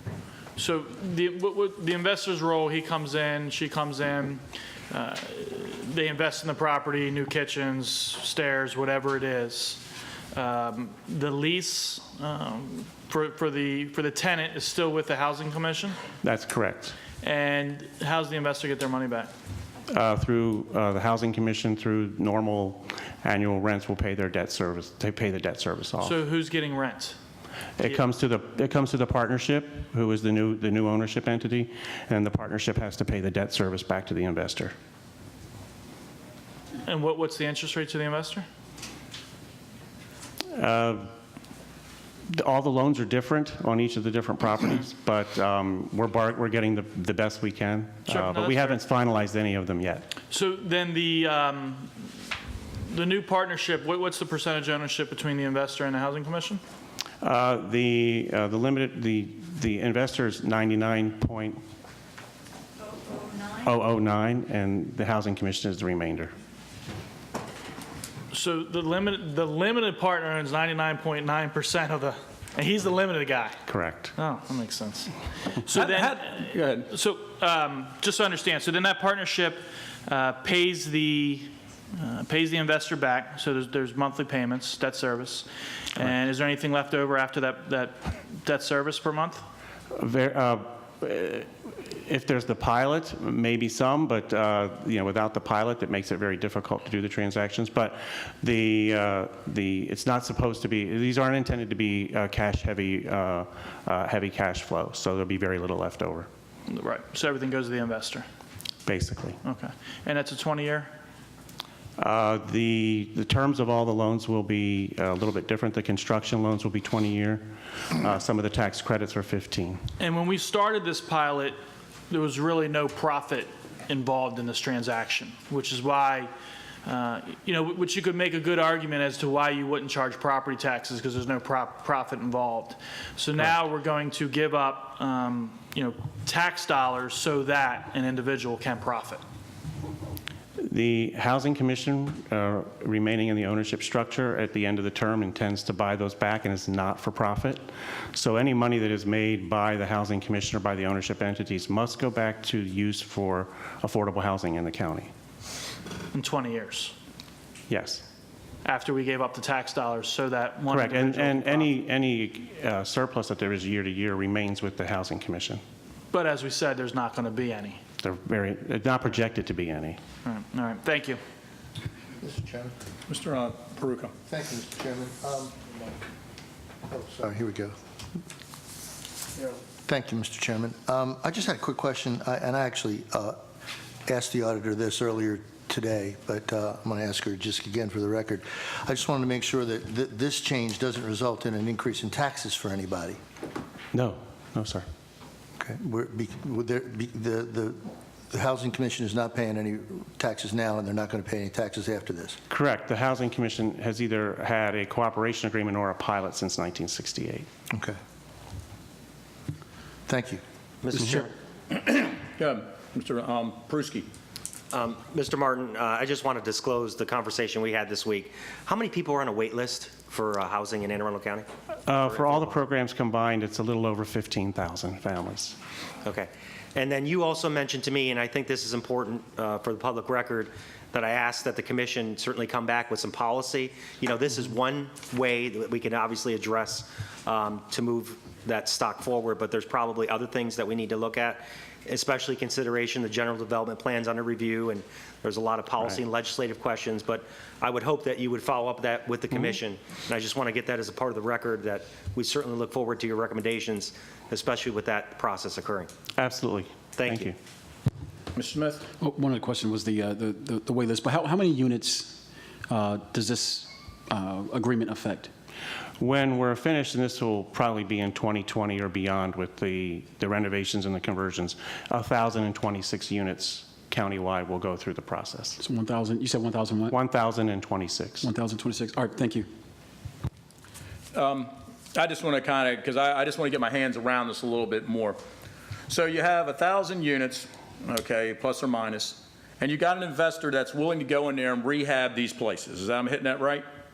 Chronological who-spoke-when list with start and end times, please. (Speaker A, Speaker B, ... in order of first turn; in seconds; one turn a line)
Speaker A: 0.6-16.0
Speaker B: 16.2-17.0
Speaker A: 17.2-19.3
Speaker B: 19.9-26.2
Speaker A: 26.0-27.2
Speaker B: 27.8-34.7
Speaker A: 36.9-38.5
Speaker B: 40.5-41.1
Speaker B: 42.3-50.1
Speaker A: 48.1-48.8
Speaker A: 50.3-51.9
Speaker A: 52.9-56.6
Speaker B: 57.2-61.6
Speaker B: 63.6-66.3
Speaker A: 68.3-73.6
Speaker B: 73.7-74.1
Speaker A: 74.2-89.4
Speaker C: 75.7-76.9
Speaker B: 89.9-106.3
Speaker A: 106.7-108.2
Speaker B: 108.8-109.4
Speaker A: 109.4-110.9
Speaker B: 112.0-117.4
Speaker B: 117.9-119.8
Speaker A: 120.0-121.6
Speaker A: 122.1-126.3
Speaker A: 126.8-139.2
Speaker B: 140.6-155.1
Speaker A: 156.1-156.9
Speaker B: 157.7-158.0
Speaker A: 158.7-161.7
Speaker B: 160.7-165.6
Speaker A: 166.1-167.8
Speaker B: 168.0-170.0
Speaker A: 170.2-171.2
Speaker D: 172.2-172.7
Speaker C: 173.1-174.1
Speaker D: 174.2-176.0
Speaker D: 176.9-177.8
Speaker D: 179.4-183.4
Speaker D: 184.1-193.2
Speaker B: 193.9-194.9
Speaker D: 195.6-202.4
Speaker B: 202.5-207.5
Speaker D: 207.7-208.0
Speaker D: 210.1-210.4
Speaker E: 210.8-211.3
Speaker C: 211.7-214.1
Speaker E: 214.7-221.5
Speaker B: 221.9-225.6
Speaker E: 222.1-222.5
Speaker E: 226.0-255.9
Speaker B: 249.3-249.6
Speaker B: 256.2-257.4
Speaker E: 257.0-257.3
Speaker C: 258.3-258.9
Speaker F: 259.0-265.3
Speaker B: 266.0-275.6
Speaker F: 275.6-276.9
Speaker B: 276.9-278.3
Speaker F: 278.2-279.5
Speaker C: 281.1-285.2
Speaker C: 285.9-293.6